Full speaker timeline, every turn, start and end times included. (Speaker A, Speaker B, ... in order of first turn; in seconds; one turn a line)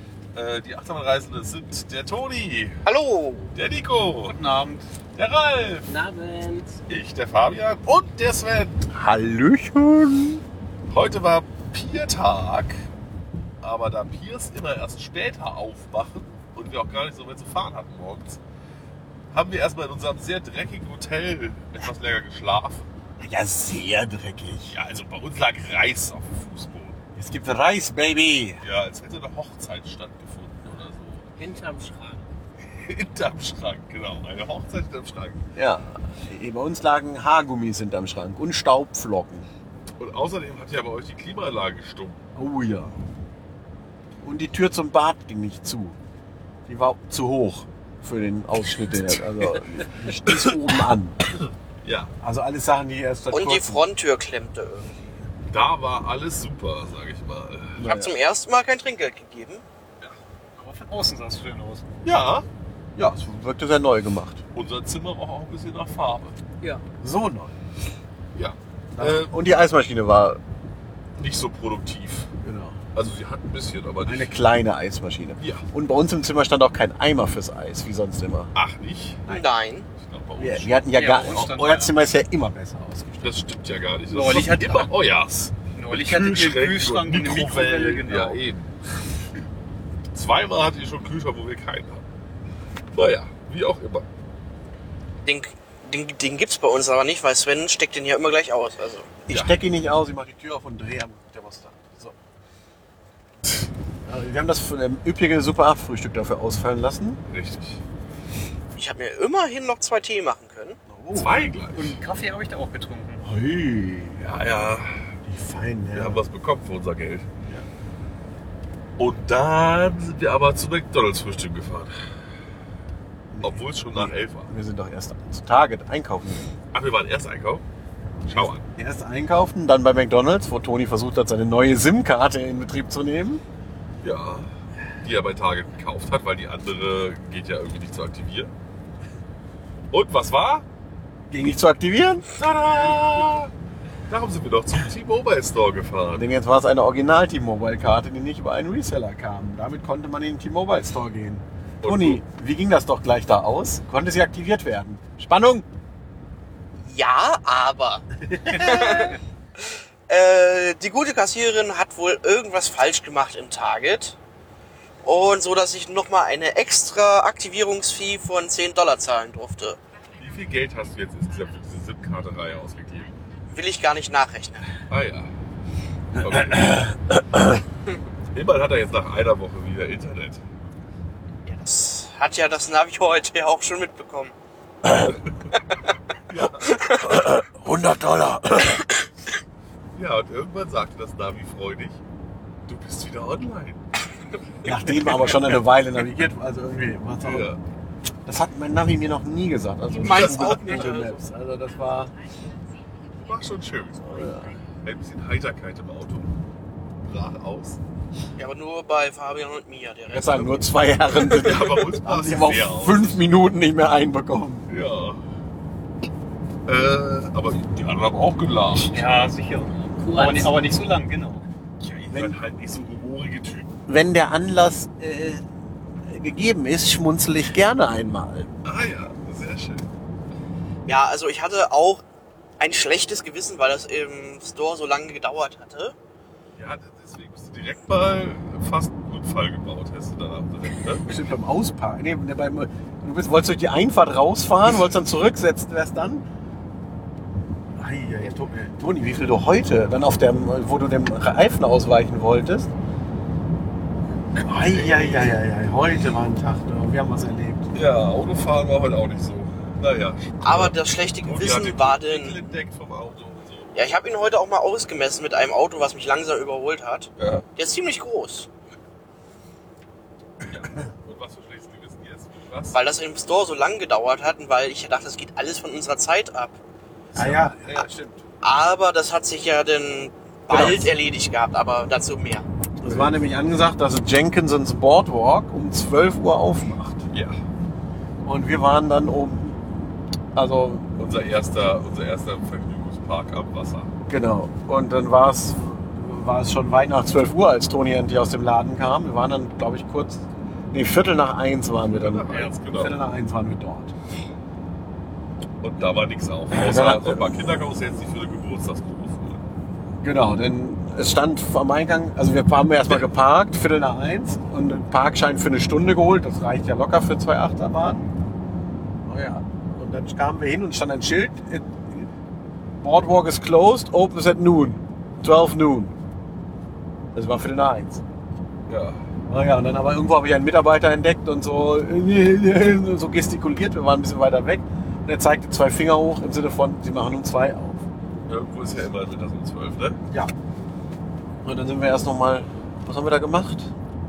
Speaker A: 0.3-2.8
Speaker B: 2.8-3.5
Speaker A: 3.5-4.4
Speaker C: 4.3-4.8
Speaker A: 5.1-5.9
Speaker D: 5.9-6.8
Speaker A: 6.9-8.8
Speaker E: 8.9-10.4
Speaker A: 10.9-12.8
Speaker A: 13.6-18.4
Speaker A: 19.3-22.8
Speaker E: 23.2-24.7
Speaker A: 24.7-27.0
Speaker E: 27.1-28.6
Speaker A: 28.6-31.3
Speaker D: 31.4-32.3
Speaker A: 32.7-35.5
Speaker E: 35.5-39.5
Speaker A: 40.0-42.2
Speaker E: 42.3-43.0
Speaker E: 44.2-46.0
Speaker E: 46.7-51.3
Speaker A: 51.8-52.1
Speaker E: 52.2-53.8
Speaker B: 53.3-55.0
Speaker A: 55.5-57.8
Speaker E: 57.8-58.1
Speaker B: 57.8-59.6
Speaker C: 60.6-61.9
Speaker A: 62.0-62.5
Speaker E: 63.0-64.4
Speaker A: 64.5-66.3
Speaker E: 67.0-67.5
Speaker A: 68.3-69.3
Speaker E: 68.9-70.4
Speaker A: 71.2-72.3
Speaker E: 72.4-72.8
Speaker A: 72.9-74.3
Speaker E: 74.0-78.5
Speaker A: 75.4-75.6
Speaker A: 78.5-79.2
Speaker B: 79.3-79.9
Speaker A: 79.9-80.9
Speaker E: 80.4-83.3
Speaker C: 80.9-81.9
Speaker A: 83.2-88.7
Speaker C: 84.1-84.9
Speaker C: 85.7-88.4
Speaker A: 90.1-92.0
Speaker A: 92.9-94.1
Speaker B: 95.2-99.1
Speaker E: 99.3-102.2
Speaker A: 99.3-99.5
Speaker E: 104.0-107.2
Speaker A: 107.3-107.8
Speaker B: 108.7-110.8
Speaker E: 110.9-111.4
Speaker A: 111.1-112.0
Speaker C: 111.7-113.2
Speaker E: 113.2-114.2
Speaker A: 114.2-115.1
Speaker E: 115.2-116.2
Speaker A: 115.9-117.3
Speaker A: 119.0-122.0
Speaker E: 123.3-126.5
Speaker A: 123.4-124.5
Speaker A: 126.7-127.6
Speaker E: 128.2-133.4
Speaker A: 128.3-128.7
Speaker A: 134.0-138.5
Speaker A: 139.9-140.7
Speaker E: 141.3-142.3
Speaker A: 142.3-143.5
Speaker A: 144.1-146.2
Speaker E: 146.1-155.6
Speaker A: 151.8-152.2
Speaker B: 156.8-159.2
Speaker E: 158.2-159.2
Speaker B: 160.1-164.2
Speaker B: 165.0-169.8
Speaker A: 170.2-173.1
Speaker B: 173.5-174.7
Speaker A: 174.9-175.3
Speaker A: 176.1-177.0
Speaker E: 176.2-177.4
Speaker A: 178.3-180.4
Speaker B: 181.4-184.3
Speaker E: 184.8-185.2
Speaker A: 186.3-186.8
Speaker B: 186.7-187.1
Speaker E: 186.8-188.9
Speaker A: 189.9-192.0
Speaker A: 192.7-193.8
Speaker E: 194.6-197.5
Speaker A: 197.2-197.6
Speaker E: 198.2-202.1
Speaker B: 200.0-201.2
Speaker A: 200.0-201.0
Speaker A: 203.2-204.3
Speaker E: 204.0-204.5
Speaker A: 204.8-206.3
Speaker A: 207.0-207.8
Speaker B: 208.4-210.7
Speaker E: 210.1-214.7
Speaker A: 211.1-213.2
Speaker A: 214.7-215.2
Speaker A: 216.7-219.0
Speaker C: 218.8-221.4
Speaker D: 219.9-220.5
Speaker A: 221.8-223.7
Speaker E: 222.1-222.4
Speaker E: 223.9-225.4
Speaker E: 226.1-228.5
Speaker A: 228.6-229.9
Speaker B: 230.8-232.0
Speaker B: 232.6-235.9
Speaker A: 236.5-241.1
Speaker E: 241.0-246.2
Speaker E: 247.8-252.7
Speaker E: 254.4-257.7
Speaker A: 254.5-255.3
Speaker A: 257.7-263.9
Speaker B: 260.4-262.4
Speaker B: 263.7-268.5
Speaker A: 267.2-267.4
Speaker A: 270.4-272.8
Speaker B: 272.7-276.6
Speaker A: 277.1-277.5
Speaker E: 277.1-278.2
Speaker B: 278.4-282.5
Speaker E: 280.5-280.9
Speaker E: 282.8-287.0
Speaker A: 282.8-283.1
Speaker A: 287.1-287.4
Speaker E: 288.2-289.7
Speaker E: 290.3-290.9
Speaker A: 291.0-293.9
Speaker E: 294.1-303.9
Speaker A: 301.9-303.0
Speaker A: 305.6-309.4
Speaker E: 306.5-307.3
Speaker E: 310.0-318.0
Speaker E: 319.1-322.1
Speaker E: 322.8-325.9
Speaker E: 327.1-328.0
Speaker A: 328.7-329.0
Speaker E: 329.3-337.8
Speaker A: 338.3-340.0
Speaker E: 341.4-343.7